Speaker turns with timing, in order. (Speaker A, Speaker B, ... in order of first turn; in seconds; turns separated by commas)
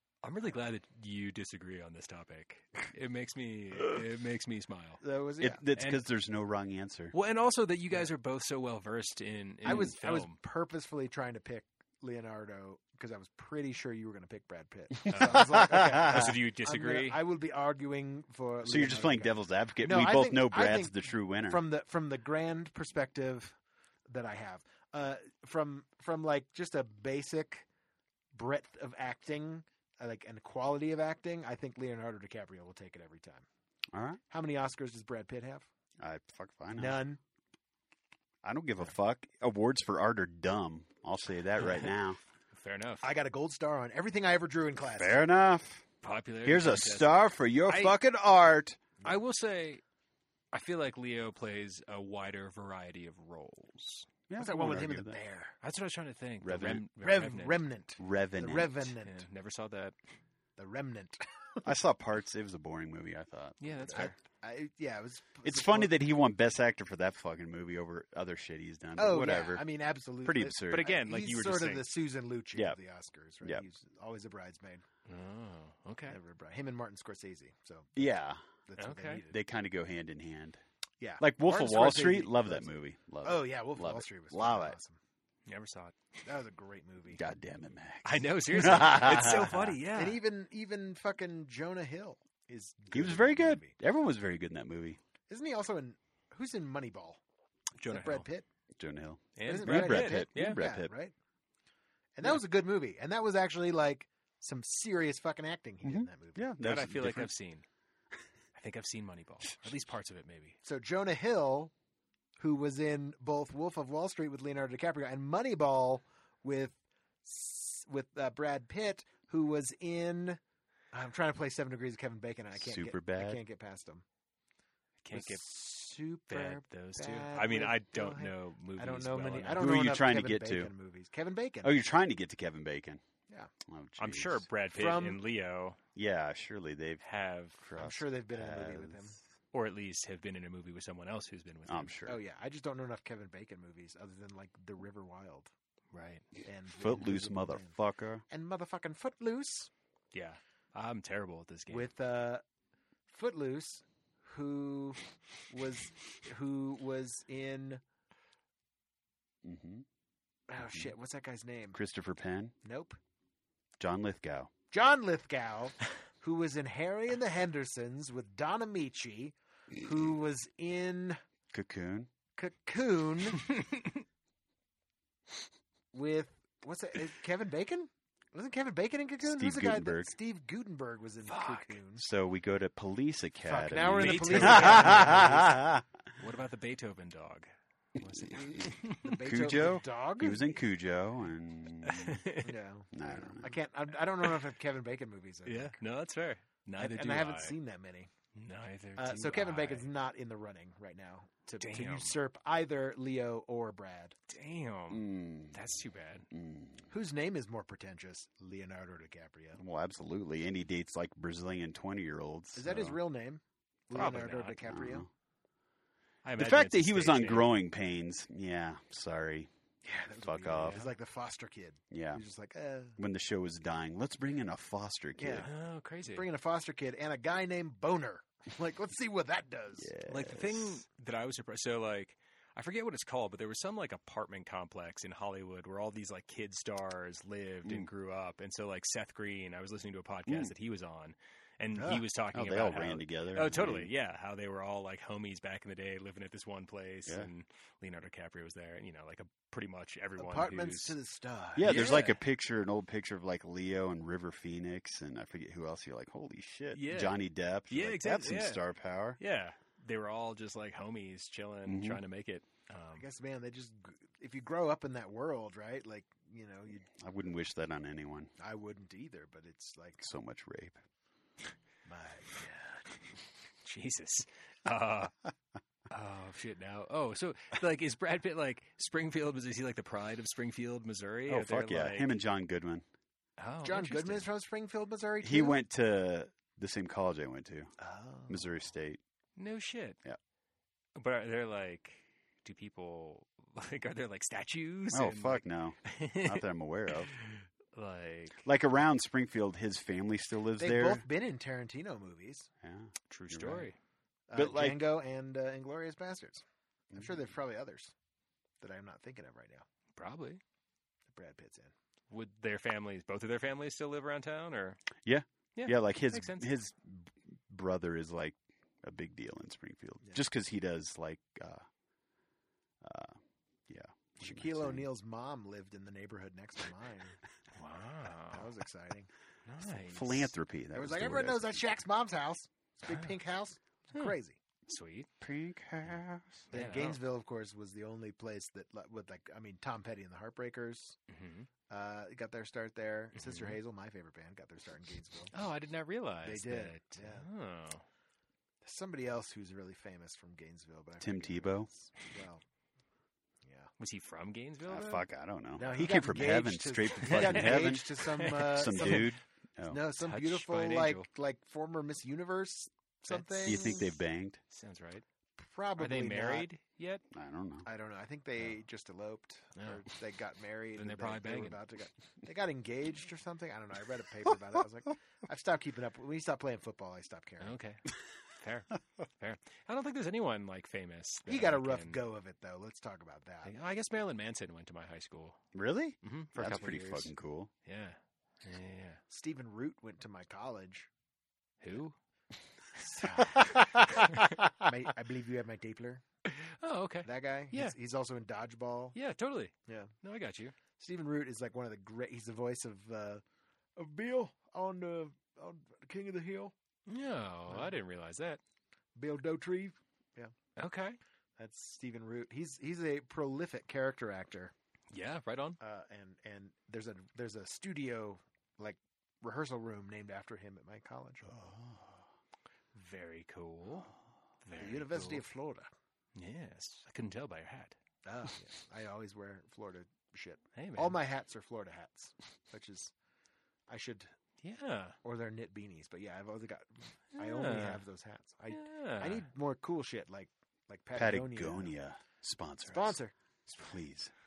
Speaker A: 0.2-5.0, Speaker B: 5.0-5.6, Speaker C: 5.4-7.1, Speaker A: 5.7-6.0, Speaker A: 7.1-10.3, Speaker B: 9.6-23.6, Speaker A: 15.1-17.2, Speaker C: 15.3-16.3, Speaker C: 18.6-21.6, Speaker B: 24.1-27.7, Speaker B: 28.3-33.5, Speaker C: 33.9-34.2, Speaker B: 34.3-35.7, Speaker C: 36.0-37.0, Speaker B: 36.7-37.2, Speaker C: 38.4-42.2, Speaker A: 42.5-43.1, Speaker B: 43.0-45.2, Speaker C: 44.9-45.9, Speaker A: 46.0-48.0, Speaker C: 46.4-48.8, Speaker A: 49.0-49.8, Speaker A: 50.5-54.1, Speaker C: 54.3-55.2, Speaker B: 54.3-55.5, Speaker A: 55.6-57.6, Speaker C: 56.4-56.8, Speaker B: 57.0-59.3, Speaker C: 58.0-58.9, Speaker A: 59.0-60.0, Speaker B: 60.6-61.7, Speaker C: 61.6-64.1, Speaker A: 63.6-64.1, Speaker B: 63.9-66.0, Speaker C: 65.4-69.7, Speaker B: 69.0-74.8, Speaker C: 70.2-70.8, Speaker A: 70.7-72.0, Speaker A: 75.0-76.2, Speaker B: 76.1-78.0, Speaker C: 78.0-78.4, Speaker B: 78.7-79.4, Speaker A: 78.8-79.2, Speaker C: 79.3-80.6, Speaker B: 81.0-82.7, Speaker C: 81.2-84.8, Speaker B: 83.2-85.0, Speaker A: 85.5-85.9, Speaker B: 86.2-87.2, Speaker C: 87.1-89.8, Speaker A: 88.0-90.2, Speaker B: 89.9-93.7, Speaker C: 92.9-95.0, Speaker B: 95.3-97.2, Speaker A: 97.8-98.2, Speaker B: 97.8-98.5, Speaker C: 98.8-100.9, Speaker A: 99.3-100.6, Speaker B: 99.4-101.1, Speaker B: 102.2-106.5, Speaker C: 105.8-107.3, Speaker A: 106.6-107.7, Speaker A: 108.5-110.6, Speaker B: 110.6-111.7, Speaker B: 112.4-120.4, Speaker B: 120.9-124.0, Speaker C: 122.6-123.4, Speaker A: 125.0-125.6, Speaker B: 125.1-131.7, Speaker A: 126.3-129.8, Speaker C: 129.6-130.7, Speaker C: 131.6-133.0, Speaker C: 133.7-134.4, Speaker A: 134.0-135.8, Speaker B: 134.7-135.2, Speaker C: 135.9-137.0, Speaker A: 137.0-137.6, Speaker C: 137.6-139.2, Speaker B: 137.8-139.2, Speaker A: 139.5-141.9, Speaker C: 141.7-142.2, Speaker B: 142.1-145.5, Speaker A: 145.9-146.2, Speaker B: 146.4-147.7, Speaker C: 146.8-148.2, Speaker B: 148.3-149.7, Speaker A: 150.1-151.9, Speaker B: 151.7-152.4, Speaker B: 153.1-157.8, Speaker C: 159.4-159.8, Speaker B: 160.5-161.8, Speaker C: 161.7-162.5, Speaker B: 162.6-163.0, Speaker C: 163.8-164.5, Speaker B: 164.7-171.2, Speaker C: 171.5-172.1, Speaker B: 172.3-173.5, Speaker B: 175.9-182.0, Speaker C: 179.2-180.1, Speaker A: 181.2-181.7, Speaker C: 182.0-185.8, Speaker B: 183.5-185.6, Speaker A: 183.9-185.4, Speaker A: 186.1-189.2, Speaker C: 188.3-192.2, Speaker B: 189.0-190.4, Speaker A: 191.8-192.5, Speaker B: 192.4-195.8, Speaker C: 192.9-193.5, Speaker A: 195.4-197.5, Speaker B: 196.8-198.1, Speaker A: 198.3-199.9, Speaker B: 199.0-204.1, Speaker A: 201.6-202.2, Speaker A: 204.3-206.3, Speaker C: 204.9-205.6, Speaker C: 206.3-206.9, Speaker B: 206.9-209.6, Speaker C: 209.6-213.0, Speaker B: 212.6-215.1, Speaker A: 213.9-214.6, Speaker C: 214.7-215.1, Speaker A: 216.2-217.5, Speaker C: 216.4-219.5, Speaker B: 219.8-223.0, Speaker C: 220.2-220.9, Speaker A: 220.6-220.9, Speaker C: 221.9-222.2, Speaker C: 223.0-225.5, Speaker B: 225.2-225.5, Speaker A: 225.4-226.2, Speaker B: 226.1-229.9, Speaker C: 229.8-230.8, Speaker A: 230.1-250.9, Speaker C: 240.3-240.5, Speaker B: 241.8-242.0, Speaker C: 242.3-243.9, Speaker B: 250.2-251.9, Speaker C: 251.6-259.2, Speaker A: 251.6-252.2, Speaker A: 256.7-258.6, Speaker A: 259.2-263.1, Speaker C: 261.6-262.0, Speaker B: 262.9-266.9, Speaker C: 266.8-268.3, Speaker B: 268.4-270.0, Speaker C: 270.0-270.8, Speaker B: 271.9-272.9, Speaker A: 273.6-275.1, Speaker A: 275.9-282.1, Speaker C: 281.3-282.8, Speaker A: 283.4-284.3, Speaker B: 283.6-285.6, Speaker C: 285.2-287.7, Speaker B: 287.8-288.5, Speaker C: 288.3-289.0, Speaker A: 289.4-290.0, Speaker A: 290.9-296.4, Speaker C: 294.9-297.1, Speaker A: 297.0-298.4, Speaker C: 298.4-301.1, Speaker B: 300.6-302.5, Speaker C: 302.6-303.7, Speaker A: 303.1-303.8, Speaker B: 304.3-307.9, Speaker C: 304.3-304.8, Speaker B: 308.6-309.6, Speaker A: 309.9-310.4, Speaker B: 311.1-311.7, Speaker A: 312.1-314.8, Speaker C: 315.0-321.6, Speaker A: 315.5-316.5, Speaker C: 322.8-324.9, Speaker B: 324.2-327.2, Speaker A: 327.5-328.5, Speaker B: 328.3-329.1, Speaker A: 329.4-330.3, Speaker C: 329.9-331.6, Speaker B: 330.7-334.4, Speaker A: 332.9-333.1, Speaker A: 334.7-335.1, Speaker C: 335.2-336.5, Speaker A: 336.5-337.0, Speaker B: 336.5-341.0, Speaker A: 341.1-341.5, Speaker B: 341.7-345.3, Speaker A: 343.1-343.6, Speaker A: 345.3-347.8, Speaker B: 346.2-347.3, Speaker B: 348.6-352.4, Speaker C: 351.0-351.7, Speaker B: 353.4-353.7, Speaker A: 353.8-355.0, Speaker C: 354.7-357.8, Speaker B: 355.6-359.1, Speaker A: 357.0-359.1, Speaker C: 358.5-359.8, Speaker B: 359.7-363.9, Speaker A: 360.0-361.1, Speaker A: 363.1-363.9, Speaker C: 363.4-364.4, Speaker A: 364.5-365.0, Speaker B: 365.4-366.5, Speaker A: 365.8-367.0, Speaker C: 367.1-367.6, Speaker B: 367.6-377.5, Speaker A: 369.6-369.8, Speaker A: 370.8-371.6, Speaker A: 377.4-382.0, Speaker B: 381.3-383.5, Speaker A: 383.4-385.4, Speaker C: 385.5-387.5, Speaker A: 386.0-387.1, Speaker A: 387.6-389.0, Speaker B: 389.1-390.9, Speaker A: 391.6-391.9, Speaker B: 392.8-396.0, Speaker A: 393.0-393.4, Speaker A: 396.2-397.7, Speaker B: 397.0-398.9, Speaker A: 398.9-400.5, Speaker B: 399.7-399.9, Speaker B: 400.8-403.2, Speaker B: 403.8-406.5, Speaker A: 406.9-408.4, Speaker B: 408.9-410.3, Speaker A: 410.6-411.0, Speaker B: 411.4-414.5, Speaker A: 414.9-415.6, Speaker B: 415.6-421.3, Speaker C: 421.3-421.9, Speaker A: 422.7-423.9, Speaker A: 424.4-425.2, Speaker B: 424.6-425.7, Speaker A: 426.1-427.8, Speaker B: 428.0-432.9, Speaker A: 430.5-431.0, Speaker B: 433.7-434.1, Speaker A: 434.4-435.0, Speaker B: 435.0-441.7, Speaker A: 437.1-437.8, Speaker A: 438.5-439.2, Speaker C: 440.9-444.1, Speaker B: 442.6-443.1